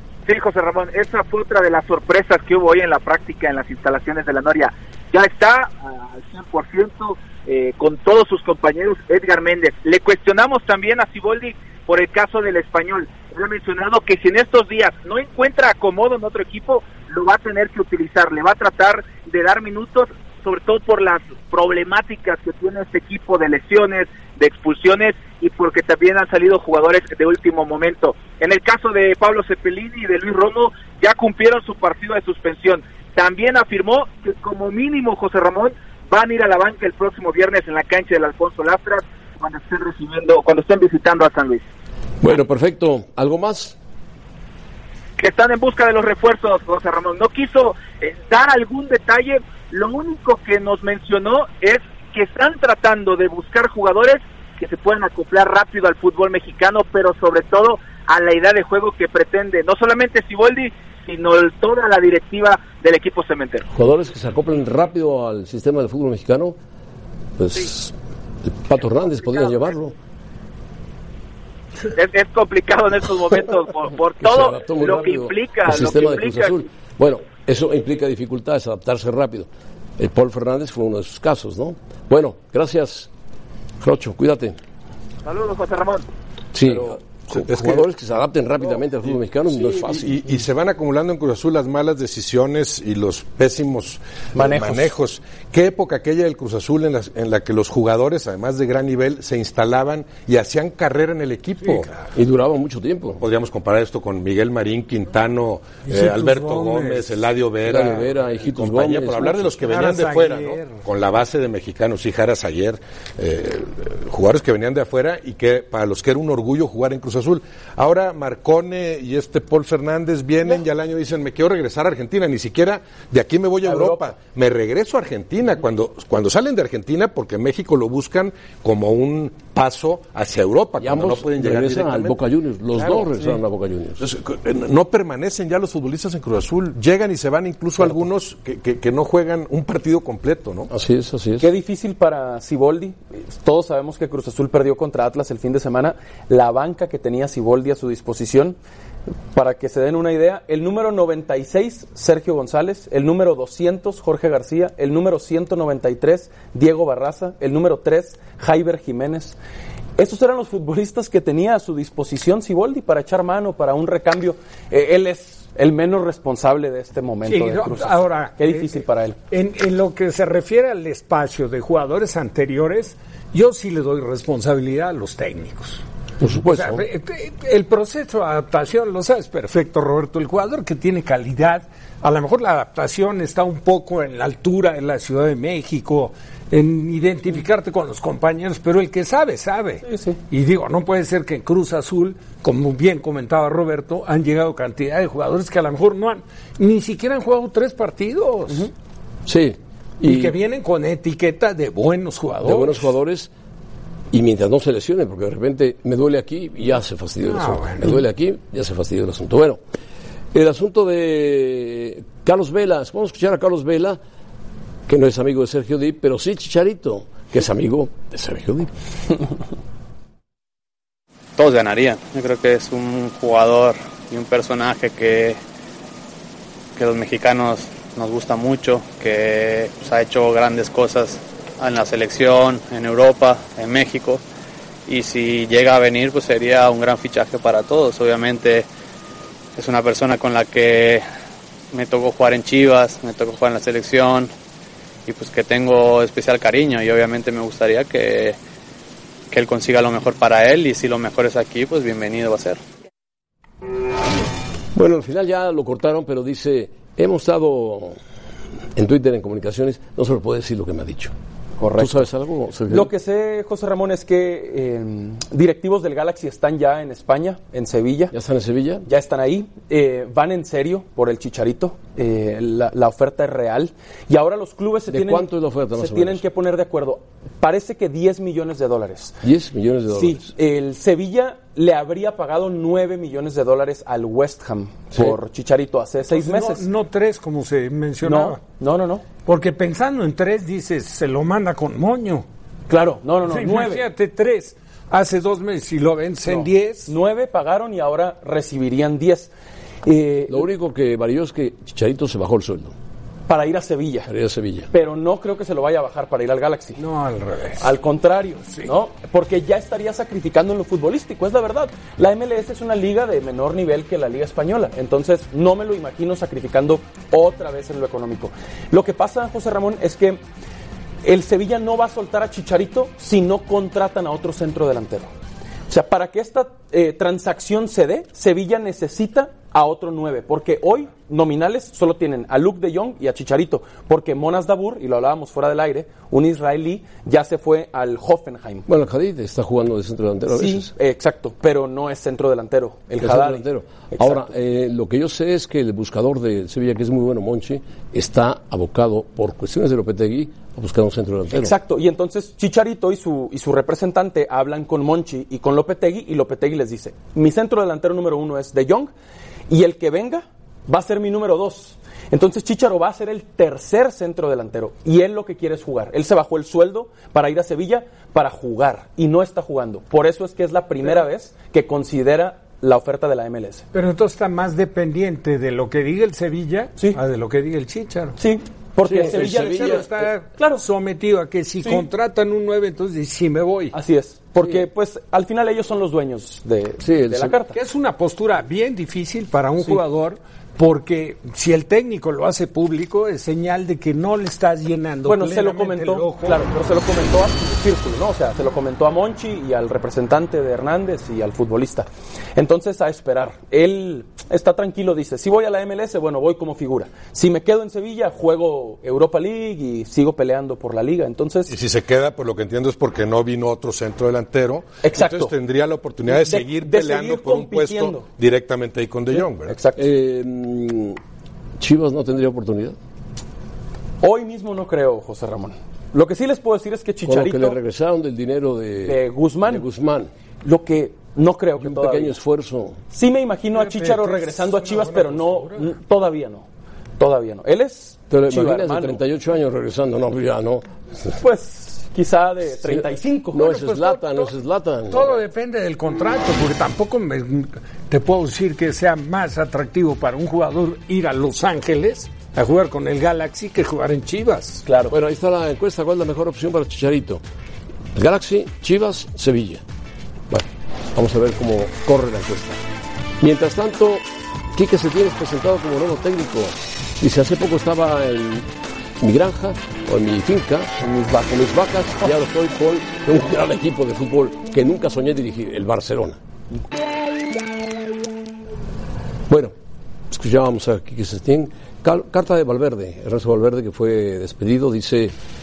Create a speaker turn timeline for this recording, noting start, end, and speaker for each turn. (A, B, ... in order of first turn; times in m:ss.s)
0:00.2-0:41.6 A
0:42.2-0:43.8 B
0:45.2-1:03.7 A
1:03.7-1:06.6 B
1:07.4-1:10.0 B
1:11.9-1:16.6 A
1:14.2-1:23.1 B
1:23.8-1:24.6 B
1:25.2-1:26.0 A
1:26.5-1:30.2 B
1:27.3-1:27.9 C
1:28.6-1:41.9 C
1:34.3-1:34.9 D
1:42.1-1:43.2 B
1:43.2-2:12.2 C
1:45.8-1:47.2 E
1:47.6-1:49.6 B
1:49.7-1:50.8 E
2:03.6-2:04.1 D
2:10.8-2:14.0 B
2:12.8-2:13.1 C
2:14.0-2:20.7 C
2:20.7-2:21.5 B
2:21.4-2:28.6 D
2:29.3-2:39.4 D
2:40.0-2:49.2 D
2:47.3-2:55.8 E
2:56.2-2:56.8 B
2:56.4-3:18.7 E
3:09.8-3:10.2 D
3:19.2-3:20.3 B
3:20.0-3:22.8 E
3:22.4-3:23.3 B
3:24.1-3:29.6 B
3:27.2-3:28.0 E
3:30.3-3:34.0 B
3:34.9-3:38.7 B
3:41.4-3:45.4 F
3:46.7-3:54.2 F
3:54.8-3:58.7 F
3:59.6-4:01.0 F
4:01.7-4:04.3 F
4:05.0-4:08.4 F
4:09.3-4:12.6 F
4:14.7-4:18.0 B
4:18.8-4:21.1 B
4:21.6-4:22.1 D
4:21.8-4:22.9 B
4:22.7-4:28.1 D
4:28.1-4:28.9 B
4:28.8-4:39.2 D
4:34.9-4:36.2 B
4:39.2-4:40.3 B
4:39.9-4:46.7 D
4:46.1-4:48.4 E
4:48.0-4:49.0 D
4:49.2-4:52.2 E
4:52.7-4:53.9 D
4:53.2-4:56.9 E
4:56.2-4:59.3 D
4:59.8-5:00.4 D
5:00.3-5:02.7 B
5:03.3-5:04.1 D
5:04.1-5:04.7 B
5:04.7-5:06.8 D
5:06.8-5:07.7 E
5:07.6-5:20.2 D
5:21.0-5:25.1 D
5:25.7-5:38.6 D
5:38.6-5:40.7 B
5:40.3-5:44.3 D
5:43.0-5:51.5 B
5:51.3-5:58.9 D
5:59.5-6:13.6 D
6:13.7-6:18.2 E
6:16.8-6:17.0 D
6:18.2-6:20.6 D
6:18.8-6:19.9 B
6:19.0-6:23.7 E
6:21.6-6:21.9 D
6:23.7-6:27.6 D
6:24.4-6:24.6 B
6:26.8-6:27.4 B
6:27.5-6:36.4 E
6:35.0-6:51.5 D
6:51.5-6:59.5 C
6:54.8-6:55.3 D
6:56.1-6:58.1 D
6:59.1-6:59.8 D
6:59.8-7:01.0 B
7:01.6-7:02.8 B
7:04.0-7:07.6 D
7:07.0-7:10.1 B
7:08.8-7:09.7 D
7:10.4-7:12.2 D
7:11.6-7:12.8 B
7:12.9-7:16.4 D
7:13.5-7:15.7 E
7:17.0-7:19.0 D
7:18.1-7:20.6 B
7:21.2-7:23.5 D
7:22.6-7:25.2 B
7:23.5-7:24.3 E
7:24.9-7:34.6 E
7:34.6-7:35.0 D
7:34.9-7:37.2 B
7:37.9-7:39.6 B
7:40.3-7:42.6 B
7:43.2-7:48.5 B
7:49.0-7:56.2 B
7:50.8-7:51.5 D
7:59.3-7:59.5 B
8:00.1-8:05.1 B